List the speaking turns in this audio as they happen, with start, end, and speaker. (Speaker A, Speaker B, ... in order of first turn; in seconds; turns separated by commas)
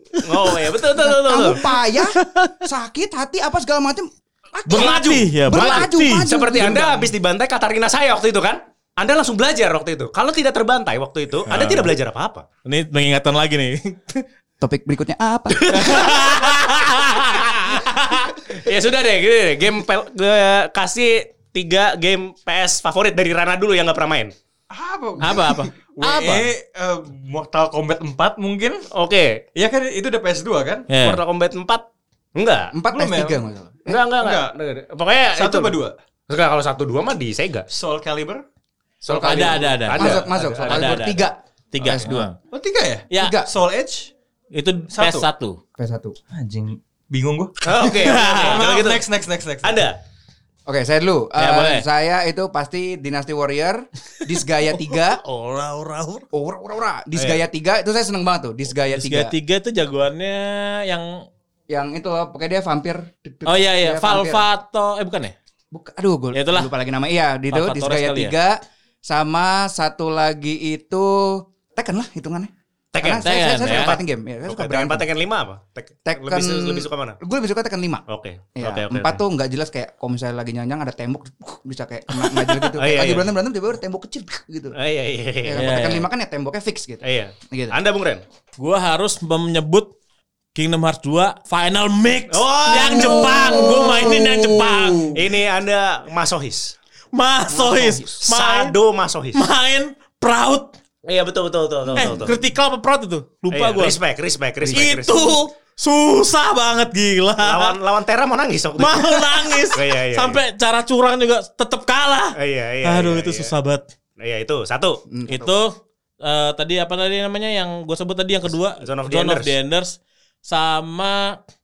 Speaker A: 0.2-1.7, Speaker B: 1.0-7.1, Speaker C: 1.9-2.5, Speaker C: 4.7-6.3, Speaker A: 4.7-12.4, Speaker C: 11.5-11.9, Speaker C: 12.7-14.2, Speaker B: 14.6-15.7, Speaker A: 15.6-16.6, Speaker C: 15.7-18.3, Speaker A: 18.5-24.3, Speaker D: 24.7-28.8, Speaker C: 25.2-26.5, Speaker A: 28.9-29.4, Speaker D: 29.6-30.9, Speaker C: 30.9-31.2, Speaker A: 31.0-31.8, Speaker A: 32.4-32.7, Speaker B: 32.7-33.8, Speaker D: 32.9-33.4, Speaker A: 33.9-35.8, Speaker D: 34.0-34.5, Speaker D: 35.3-36.0, Speaker A: 36.3-37.7, Speaker D: 37.7-38.4, Speaker A: 39.0-40.2, Speaker B: 39.1-42.3, Speaker C: 39.2-42.4, Speaker D: 40.0-41.1, Speaker D: 42.5-44.1, Speaker C: 43.1-43.4, Speaker B: 43.2-43.5, Speaker C: 44.5-45.6, Speaker D: 44.9-45.3, Speaker B: 45.8-46.2, Speaker D: 46.3-49.9, Speaker A: 47.6-49.0, Speaker C: 47.9-48.6, Speaker A: 49.6-50.0, Speaker B: 50.7-55.2, Speaker C: 51.4-51.9, Speaker C: 54.8-56.2, Speaker B: 56.3-59.3, Speaker A: 57.2-57.4, Speaker C: 58.9-61.2, Speaker B: 61.7-64.5, Speaker C: 63.5-65.3, Speaker B: 65.7-75.0, Speaker C: 66.3-66.7, Speaker C: 67.5-68.3, Speaker A: 72.9-77.2, Speaker C: 73.2-73.9, Speaker B: 76.1-78.0, Speaker A: 78.1-79.2, Speaker B: 78.6-84.8, Speaker A: 82.8-83.2, Speaker A: 84.8-85.6, Speaker B: 85.4-87.8, Speaker C: 85.6-86.1, Speaker A: 87.0-88.2, Speaker C: 88.6-89.9, Speaker C: 90.5-95.2, Speaker A: 92.3-93.8, Speaker B: 93.3-94.7, Speaker A: 95.1-96.7, Speaker C: 97.1-98.7, Speaker B: 97.5-98.2, Speaker A: 98.2-99.4, Speaker C: 99.3-100.7, Speaker A: 101.1-102.4, Speaker C: 102.0-104.0, Speaker A: 103.5-105.4, Speaker C: 104.7-107.8, Speaker A: 107.4-110.4, Speaker C: 108.8-113.8, Speaker A: 112.4-113.5, Speaker A: 114.2-115.0, Speaker B: 115.1-115.5, Speaker C: 115.3-121.4, Speaker A: 118.8-119.5